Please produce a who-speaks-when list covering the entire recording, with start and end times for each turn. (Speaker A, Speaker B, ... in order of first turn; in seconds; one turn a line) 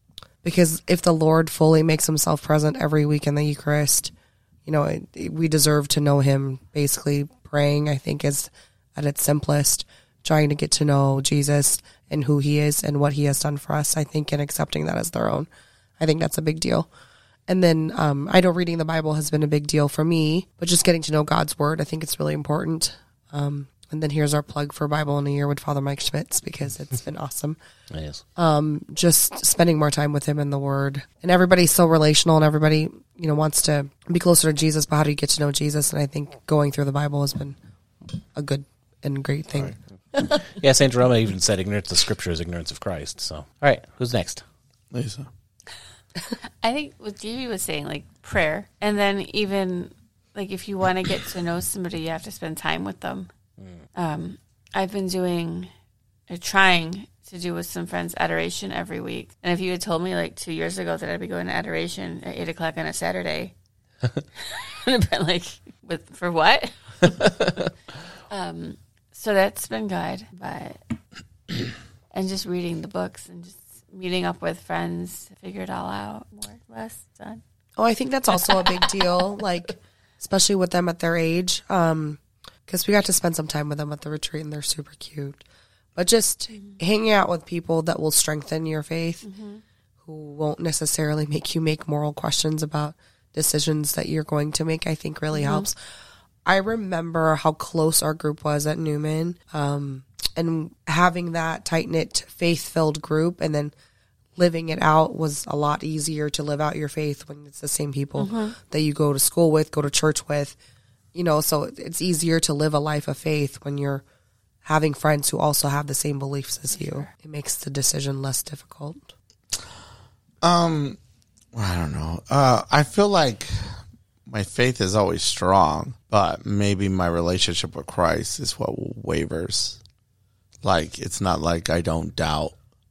Speaker A: 0.4-4.1
Speaker A: 4.7-15.5
Speaker A: 16.0-16.9
Speaker A: 17.5-27.6
Speaker B: 27.9-28.2
Speaker A: 28.4-37.5
Speaker A: 38.3-39.7
Speaker B: 40.1-44.4
Speaker C: 44.9-45.3
Speaker D: 46.6-53.3
Speaker D: 54.0-55.7
Speaker D: 56.3-63.5
Speaker D: 64.4-67.2
Speaker B: 67.2-67.5
Speaker D: 68.3-70.8
Speaker D: 72.1-77.4
Speaker A: 77.8-85.4
Speaker A: 86.0-89.2
Speaker D: 89.2-89.6
Speaker A: 90.0-95.7
Speaker D: 95.3-95.7
Speaker A: 96.4-103.7
Speaker A: 104.4-110.6
Speaker D: 108.2-108.5
Speaker A: 111.1-114.0
Speaker A: 114.6-119.1
Speaker D: 116.7-117.1
Speaker C: 120.4-121.0
Speaker C: 121.5-129.8
Speaker C: 130.6-132.5